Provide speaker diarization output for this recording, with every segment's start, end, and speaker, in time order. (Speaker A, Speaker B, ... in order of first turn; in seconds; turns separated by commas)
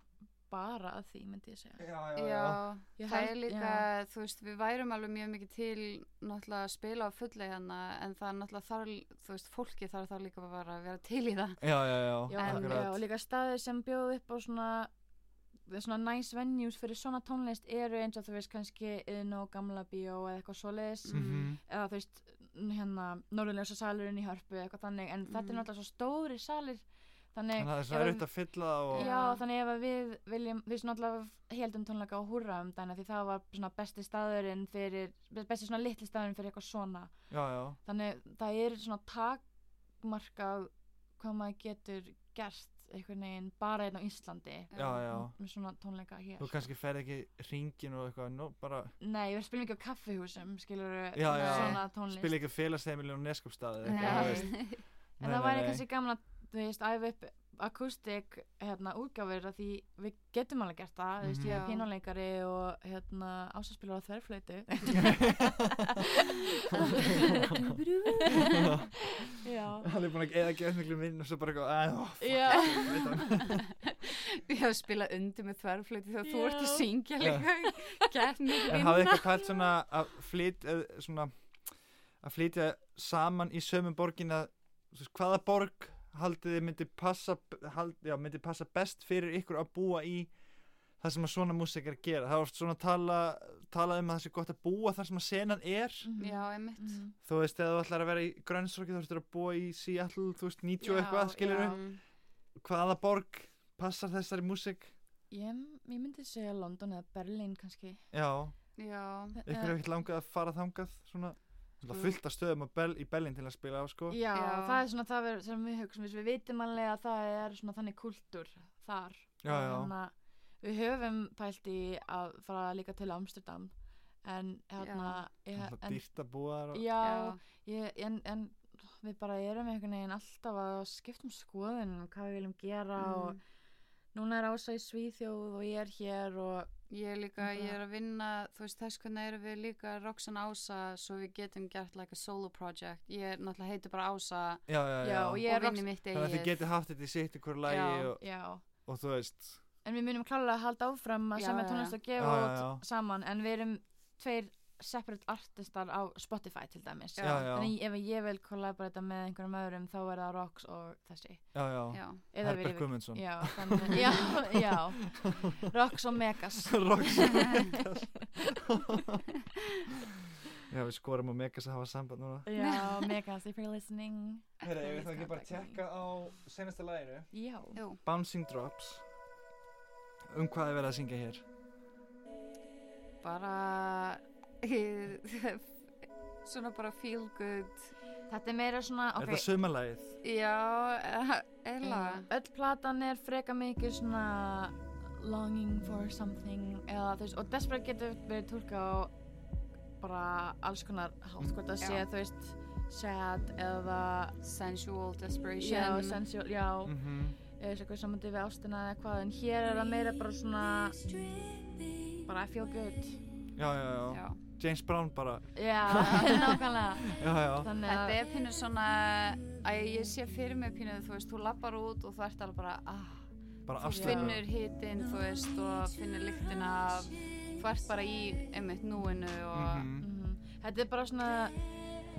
Speaker A: 0.5-1.8, Speaker B: 1.8-2.7, Speaker C: 2.1-12.9, Speaker A: 3.0-3.9, Speaker B: 11.6-13.0, Speaker A: 12.3-14.9, Speaker A: 15.7-28.3, Speaker C: 21.1-21.5, Speaker B: 21.1-21.6, Speaker C: 25.3-25.6, Speaker B: 27.6-29.1, Speaker A: 28.9-37.1, Speaker C: 28.9-29.4, Speaker B: 37.3-37.8, Speaker A: 37.9-39.4, Speaker A: 40.0-46.6, Speaker C: 44.7-45.0, Speaker B: 44.8-45.4, Speaker B: 46.4-49.0, Speaker A: 49.0-52.4, Speaker B: 51.1-55.9, Speaker C: 51.3-51.8, Speaker A: 53.9-54.7, Speaker C: 53.9-54.8, Speaker A: 55.2-69.9, Speaker B: 61.2-61.6, Speaker C: 61.4-61.9, Speaker B: 65.0-66.0, Speaker B: 66.7-67.8, Speaker B: 68.4-73.6, Speaker A: 72.2-73.3, Speaker C: 72.7-79.5, Speaker A: 76.2-76.9, Speaker B: 77.2-77.5, Speaker A: 78.5-79.4, Speaker B: 78.7-81.3, Speaker B: 82.2-90.3, Speaker B: 91.0-96.1, Speaker A: 96.0-97.2, Speaker C: 96.2-97.0, Speaker B: 97.2-101.8, Speaker A: 100.8-101.8, Speaker C: 101.5-102.0, Speaker B: 102.6-104.9, Speaker A: 105.3-108.0, Speaker B: 108.1-108.6, Speaker C: 108.8-109.4, Speaker A: 109.4-109.7, Speaker B: 109.5-114.2, Speaker A: 114.1-123.7, Speaker C: 114.3-114.8, Speaker B: 119.4-119.9, Speaker A: 124.2-126.0, Speaker C: 124.8-125.2, Speaker B: 125.6-126.8, Speaker A: 126.7-133.4, Speaker C: 127.0-127.4, Speaker C: 133.0-133.4, Speaker A: 134.1-136.7, Speaker C: 136.9-144.7, Speaker A: 137.4-137.8, Speaker B: 144.7-145.5, Speaker A: 145.0-145.8, Speaker C: 145.5-146.6, Speaker B: 146.1-148.2, Speaker C: 147.7-148.1, Speaker A: 148.2-148.6, Speaker B: 148.8-149.6, Speaker A: 149.8-161.6, Speaker C: 151.4-152.0, Speaker B: 152.2-152.8, Speaker C: 157.2-157.5, Speaker B: 157.2-157.7, Speaker B: 161.5-165.7, Speaker C: 161.9-162.2, Speaker A: 162.3-168.6, Speaker B: 166.6-169.3, Speaker B: 170.6-172.5, Speaker A: 172.4-175.8, Speaker C: 172.6-173.1, Speaker B: 174.6-177.3, Speaker A: 177.3-177.8, Speaker C: 177.8-178.0, Speaker B: 178.0-179.0, Speaker B: 180.3-181.4, Speaker C: 183.2-187.9, Speaker A: 188.3-189.5, Speaker B: 189.2-190.2, Speaker C: 190.2-192.3, Speaker A: 191.8-199.1, Speaker A: 200.0-204.3, Speaker C: 204.4-206.2, Speaker A: 205.6-211.1, Speaker B: 206.8-207.4, Speaker A: 212.2-213.2, Speaker B: 213.6-216.4, Speaker C: 214.1-214.4, Speaker A: 215.6-218.2, Speaker B: 217.1-217.8, Speaker C: 217.8-229.9, Speaker B: 223.7-224.4, Speaker A: 223.9-224.3, Speaker B: 229.5-230.1, Speaker A: 230.0-231.6